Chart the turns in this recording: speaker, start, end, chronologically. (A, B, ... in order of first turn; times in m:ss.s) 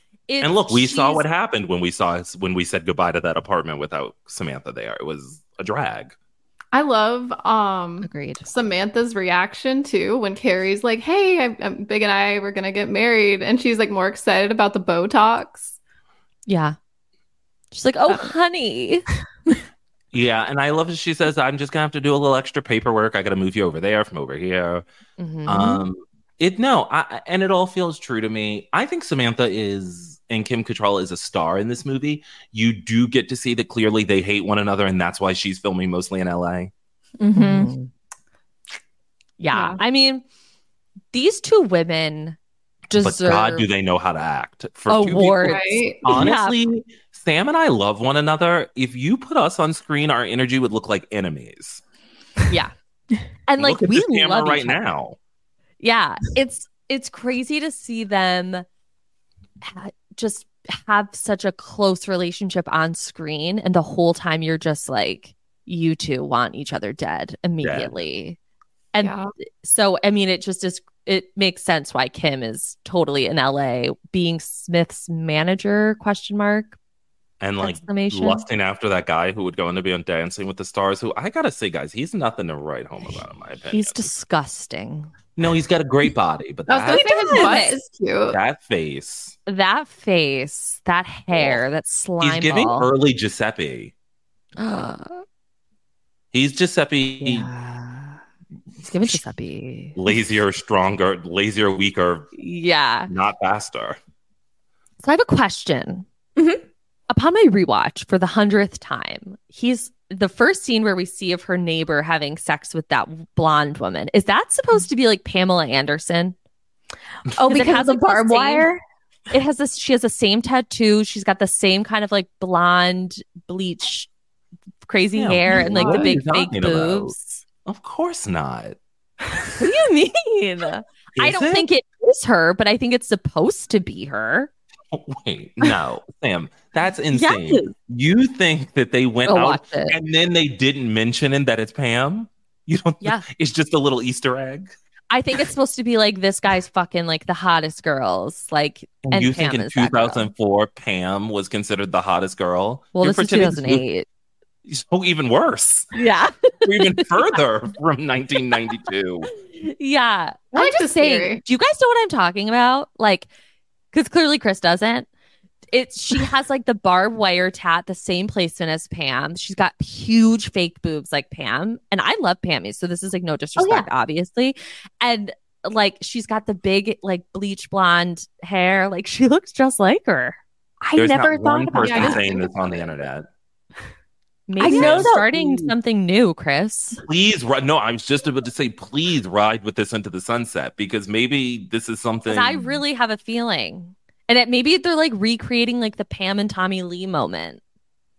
0:00.3-0:01.2 A
0:00.4-0:06.1 B
0:06.7-0:15.8 C
0:08.0-0:08.5 A
0:16.5-0:16.8 A
0:17.7-0:19.0 A
0:18.1-0:18.3 C
0:20.1-0:24.9 B
0:25.2-0:25.8 A
0:25.5-0:36.7 B
0:37.2-0:37.7 D
0:37.4-0:37.9 A
0:39.4-0:40.2 A
0:39.5-0:39.8 C
0:41.1-0:42.4 A
0:42.9-0:43.7 A
0:43.0-0:51.8 B
0:44.9-0:46.6 A
0:45.4-0:46.0 C
0:53.5-0:54.8 A
0:53.6-0:55.2 B
0:55.8-0:58.6 A
0:59.6-1:08.4 A
1:07.6-1:08.0 B
1:08.9-1:16.8 A
1:09.0-1:09.3 C
1:17.4-1:24.0 B
1:17.6-1:18.4 A
1:23.7-1:25.1 A
1:25.4-1:27.5 B
1:26.7-1:28.4 C
1:26.9-1:27.8 A
1:28.3-1:29.4 B
1:29.5-1:32.9 A
1:31.3-1:31.6 B
1:32.2-1:33.9 B
1:34.6-1:35.2 A
1:36.3-1:37.5 B
1:37.2-1:38.2 A
1:38.8-1:40.0 A
1:40.0-1:42.3 B
1:42.4-1:43.1 A
1:43.1-1:44.0 B
1:45.0-1:46.1 A
1:46.4-1:46.6 D
1:47.1-1:56.4 A
1:57.3-1:58.8 D
1:57.4-1:58.7 A
1:59.3-2:04.1 A
2:04.9-2:07.4 A
2:05.2-2:08.8 B
2:09.6-2:14.5 A
2:11.2-2:11.7 B
2:14.9-2:24.7 B
2:17.1-2:17.7 A
2:19.3-2:20.0 A
2:25.1-2:30.3 A
2:29.0-2:33.8 B
2:33.0-2:34.1 A
2:34.6-2:35.9 B
2:35.9-2:37.1 A
2:36.6-2:39.3 B
2:39.6-2:43.3 A
2:40.5-2:41.4 C
2:43.9-2:45.1 A
2:45.7-3:00.4 A
2:53.6-2:53.9 D
3:00.8-3:02.2 D
3:01.0-3:03.3 B
3:01.8-3:02.9 C
3:04.5-3:07.0 A
3:04.6-3:05.3 D
3:04.6-3:05.7 B
3:07.0-3:12.7 B
3:12.3-3:17.6 A